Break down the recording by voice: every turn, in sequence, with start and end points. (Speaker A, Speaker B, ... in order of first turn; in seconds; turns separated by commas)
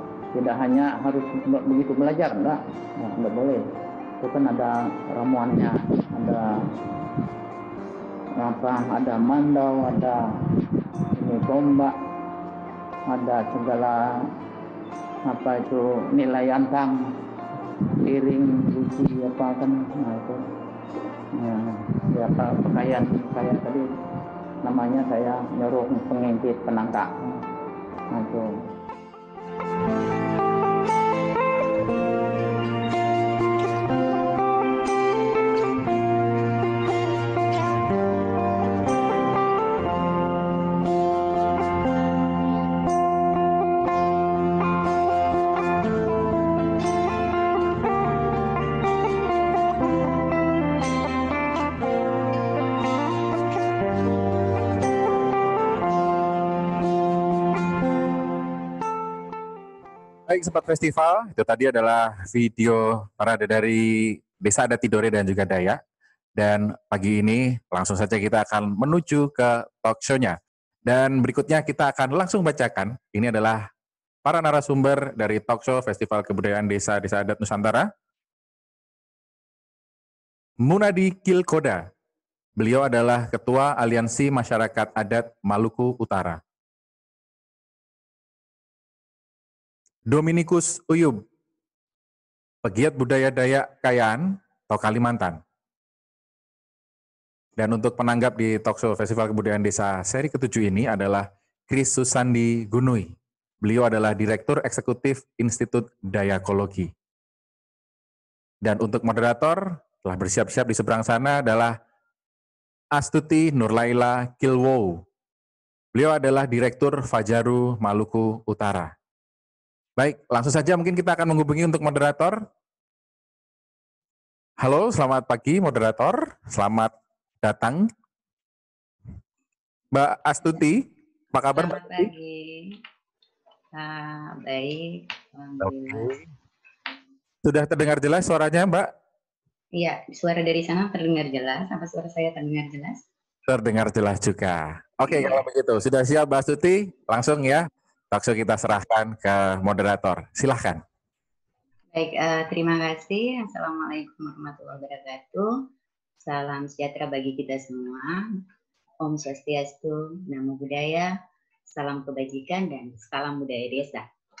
Speaker A: 0.3-3.6, Speaker A: 4.2-6.5, Speaker A: 8.4-10.2, Speaker A: 11.1-11.9, Speaker A: 13.1-14.0, Speaker A: 15.2-16.9, Speaker A: 18.0-20.4, Speaker A: 21.4-23.8, Speaker A: 24.6-27.4, Speaker A: 28.1-28.5, Speaker B: 60.3-65.8, Speaker B: 66.4-73.6, Speaker B: 74.2-77.9, Speaker B: 80.6-81.8, Speaker B: 82.6-86.4, Speaker B: 90.1-91.2, Speaker B: 92.6-95.4, Speaker B: 97.6-106.9, Speaker B: 108.6-111.7, Speaker B: 112.9-115.0, Speaker B: 115.9-118.9, Speaker B: 120.0-122.4, Speaker B: 124.6-126.9, Speaker B: 127.4-127.9, Speaker B: 129.9-130.8, Speaker B: 131.3-132.1, Speaker C: 131.5-132.7, Speaker C: 133.8-136.1, Speaker B: 135.6-136.2, Speaker B: 137.4-138.9, Speaker C: 139.8-143.0, Speaker B: 143.5-150.8, Speaker C: 145.1-145.4, Speaker C: 151.9-155.5, Speaker C: 156.2-158.2, Speaker C: 159.0-161.1, Speaker C: 161.7-164.1